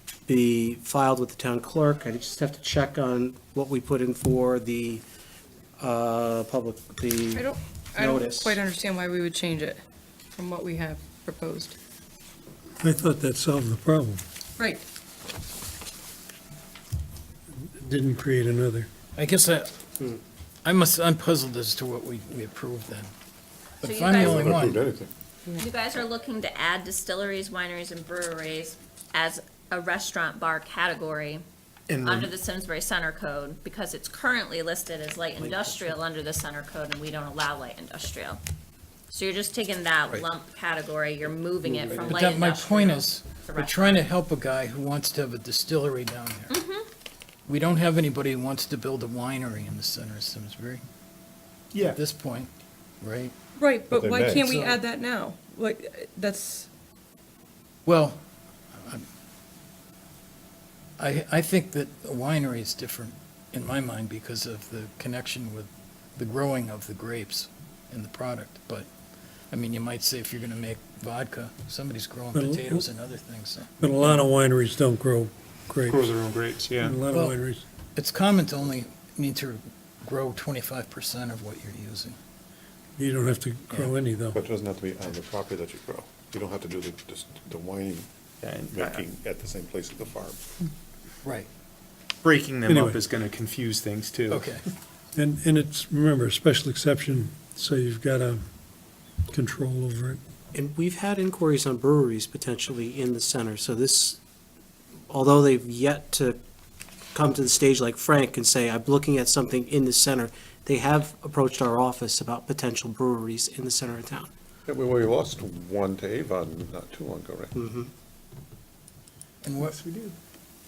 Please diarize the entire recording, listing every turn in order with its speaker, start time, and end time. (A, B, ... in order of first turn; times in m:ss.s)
0:00.3-0:05.0 A
0:05.8-0:08.6 A
0:07.3-0:09.8 B
0:10.4-0:11.7 B
0:12.8-0:14.2 C
0:14.6-0:14.8 B
0:17.6-0:18.9 C
0:19.2-0:19.7 D
0:20.6-0:23.1 D
0:23.8-0:24.4 E
0:23.8-0:24.8 D
0:24.1-0:25.1 F
0:25.6-0:31.4 E
0:31.9-0:32.3 G
0:32.0-0:38.4 E
0:35.4-0:36.0 A
0:39.1-0:44.0 E
0:41.7-0:42.1 A
0:42.0-0:46.6 D
0:46.5-0:46.8 E
0:47.5-0:50.8 D
0:51.8-0:52.5 D
0:53.0-0:53.3 D
0:53.6-0:56.7 B
0:53.9-0:54.6 F
0:54.4-0:54.8 D
0:57.8-0:58.2 D
0:58.8-0:59.0 D
1:01.0-1:08.9 D
1:09.5-1:13.7 D
1:12.3-1:12.9 C
1:13.8-1:16.1 C
1:15.9-1:17.0 G
1:16.8-1:17.6 C
1:17.0-1:17.4 D
1:17.9-1:22.2 D
1:23.0-1:24.4 C
1:24.3-1:28.1 F
1:28.4-1:29.0 G
1:28.7-1:30.4 F
1:32.2-1:34.4 G
1:32.6-1:33.0 C
1:34.3-1:34.6 D
1:35.2-1:38.4 C
1:39.3-1:40.2 C
1:40.5-1:44.2 A
1:45.1-1:46.4 A
1:47.1-1:54.3 A
1:54.7-1:57.5 F
1:57.6-1:57.9 A
1:59.4-1:59.8 D